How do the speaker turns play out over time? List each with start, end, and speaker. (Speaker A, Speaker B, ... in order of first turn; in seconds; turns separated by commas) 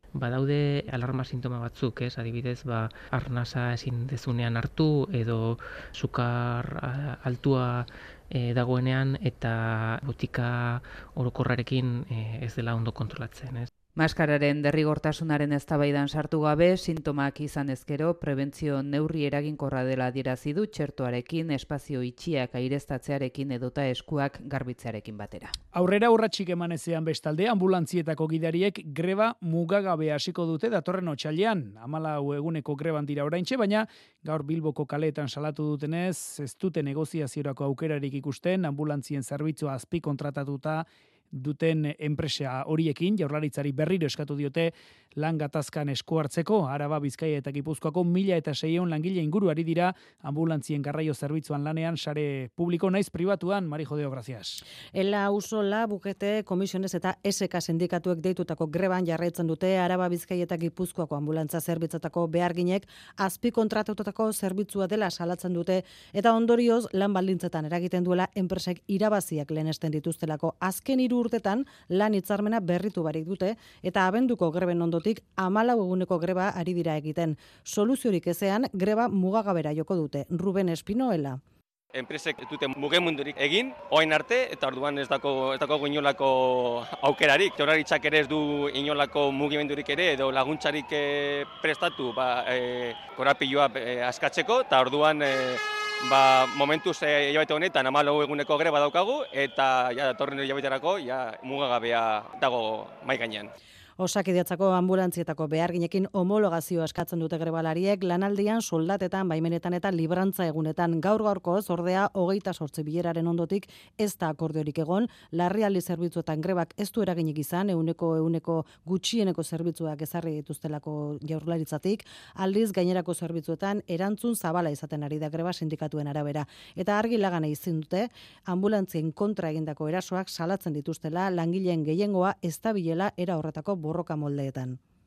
Speaker A: 0.1-13.7, Speaker B: 13.9-25.5, Speaker C: 25.7-54.6, Speaker D: 54.9-81.4, Speaker E: 81.9-103.5, Speaker D: 104.0-134.8